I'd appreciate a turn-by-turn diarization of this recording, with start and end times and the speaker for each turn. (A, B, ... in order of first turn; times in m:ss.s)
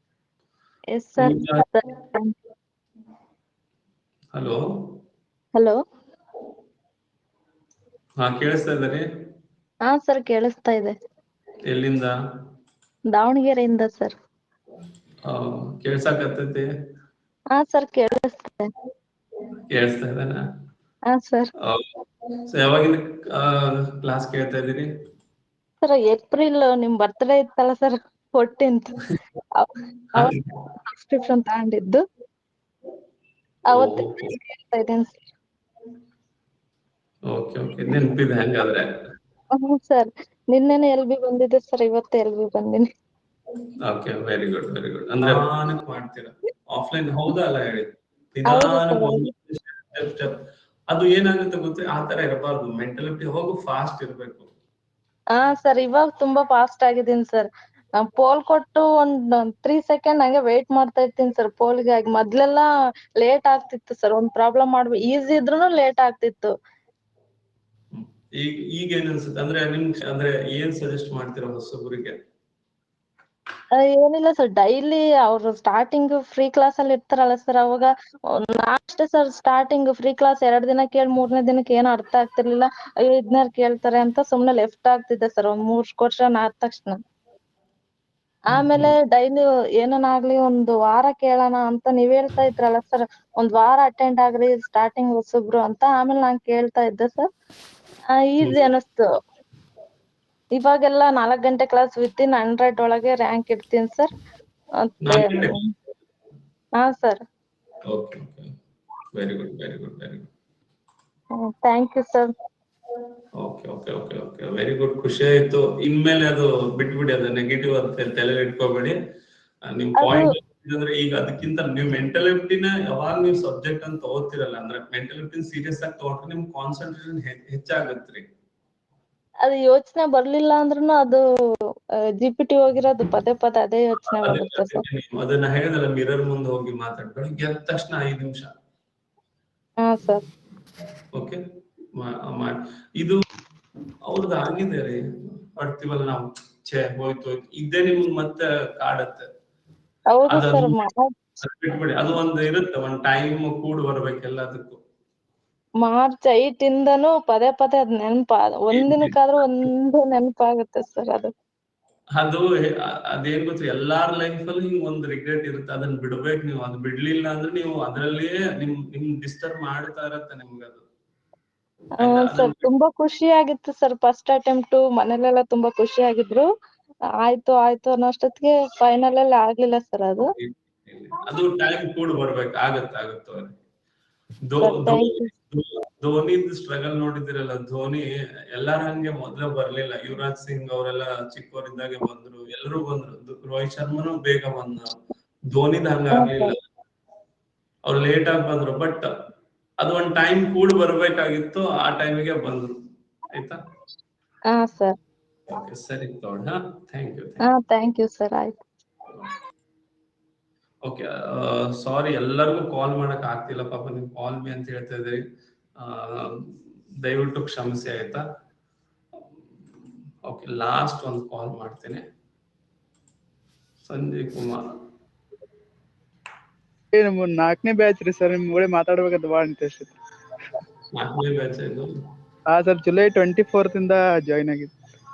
0:00.9-0:02.4 A
0:01.2-0:01.6 B
0:04.3-0:05.0 B
0:05.6-0:05.8 A
0:08.2-0:09.1 B
0:09.9-0:11.0 A
0:11.7-0:12.2 B
0:13.1-0:14.1 A
0:15.3-0:16.7 B
0:17.5-0:18.7 A
0:19.7-0:20.4 B
0:21.1-0:21.5 A
0:21.6-0:22.0 B
0:22.5-0:24.9 B
0:25.8-0:29.0 A
0:29.6-0:32.0 A
0:30.2-0:30.4 B
0:33.7-0:35.2 A
0:33.7-0:34.4 B
0:37.3-0:38.9 B
0:39.5-0:42.9 A
0:43.8-0:54.5 B
0:48.5-0:49.3 A
0:55.3-1:02.7 A
1:03.2-1:06.5 A
1:07.9-1:12.2 B
1:13.7-1:27.0 A
1:28.5-1:37.3 A
1:28.5-1:28.9 B
1:38.1-1:39.1 A
1:40.6-1:44.1 A
1:44.8-1:45.7 A
1:45.0-1:45.6 B
1:46.8-1:47.2 A
1:47.9-1:48.5 B
1:49.1-1:50.3 B
1:51.4-1:52.3 A
1:53.4-1:59.0 B
1:59.6-2:08.3 B
2:00.0-2:00.3 A
2:09.4-2:11.2 A
2:12.2-2:14.8 A
2:14.1-2:18.5 B
2:19.8-2:20.2 A
2:21.1-2:21.4 B
2:21.9-2:23.2 B
2:24.1-2:29.3 B
2:30.1-2:31.1 A
2:30.3-2:30.8 B
2:31.4-2:34.8 B
2:35.8-2:41.3 A
2:38.7-2:39.2 B
2:42.2-2:50.8 B
2:52.0-2:52.7 B
2:52.0-2:56.5 A
2:57.2-3:00.3 A
3:00.3-3:03.6 B
3:04.5-3:14.9 B
3:04.6-3:05.3 A
3:15.5-3:16.6 B
3:16.1-3:16.5 A
3:17.9-3:19.1 B
3:19.8-3:22.7 B
3:23.3-3:23.6 B
3:24.5-3:25.0 A
3:25.5-3:27.5 B
3:27.4-3:28.6 A
3:30.8-3:35.2 B
3:35.8-3:38.2 B
3:40.2-3:42.0 B
3:43.8-3:44.6 B
3:46.9-3:50.0 C
3:50.9-3:51.9 B
3:52.5-3:54.8 C